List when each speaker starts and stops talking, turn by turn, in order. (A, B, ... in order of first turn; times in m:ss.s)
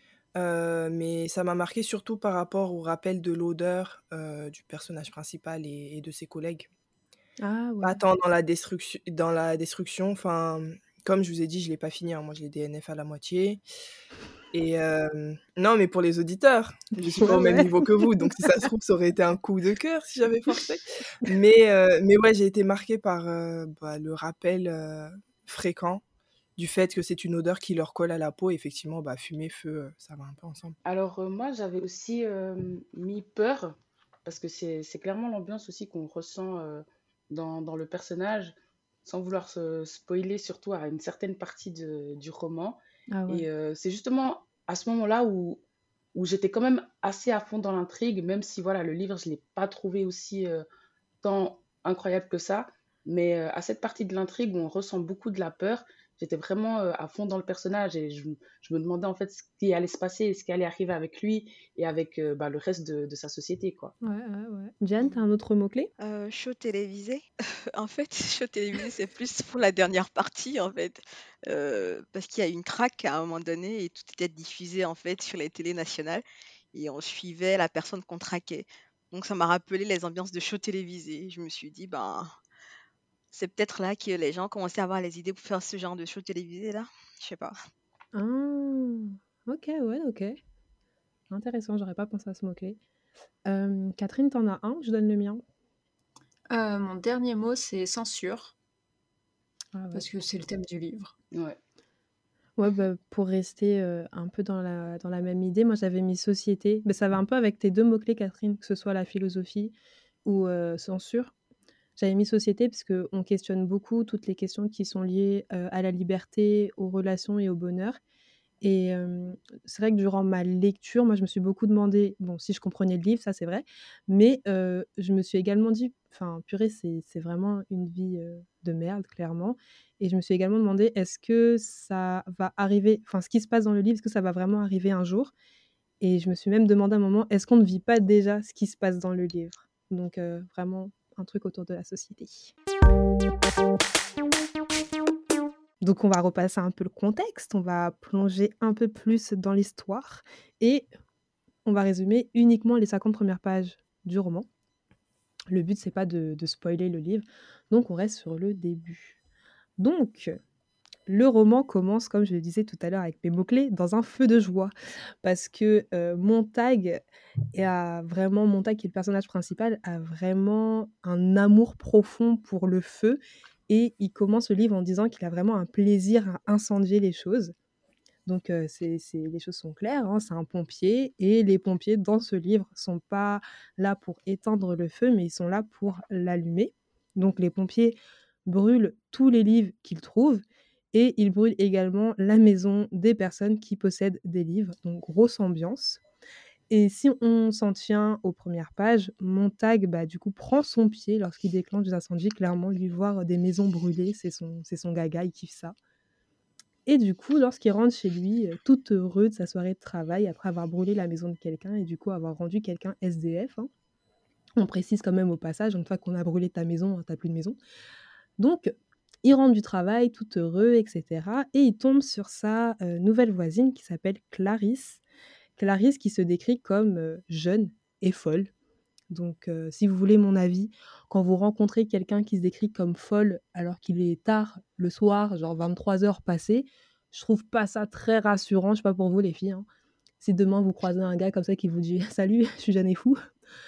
0:00.3-0:06.7 A
0:07.4-0:08.0 B
0:07.8-0:13.6 A
0:14.5-0:26.0 A
0:17.1-0:18.5 B
0:26.6-0:30.8 A
0:30.8-0:45.6 C
0:43.1-0:43.5 B
0:46.1-0:50.6 C
0:51.2-1:03.9 C
1:04.0-1:05.9 B
1:06.0-1:22.3 D
1:23.3-1:27.6 D
1:28.1-1:30.4 B
1:31.3-1:32.8 B
1:33.4-1:35.4 B
1:36.5-1:38.5 E
1:39.7-1:40.0 B
1:39.9-1:41.1 E
1:42.6-1:49.7 B
1:50.2-1:51.3 B
1:52.0-1:58.0 B
1:58.6-2:15.3 B
2:16.0-2:22.5 B
2:25.8-2:30.9 B
2:31.6-2:34.5 B
2:35.5-2:39.2 B
2:39.8-2:40.4 B
2:41.1-2:47.0 B
2:47.5-2:57.5 B
2:58.2-3:16.0 B
3:16.7-3:25.7 B
3:26.8-3:33.7 B
3:34.6-3:37.6 B
3:38.4-3:45.0 B
3:45.6-3:48.5 B
3:49.1-3:59.7 B
4:00.2-4:03.2 B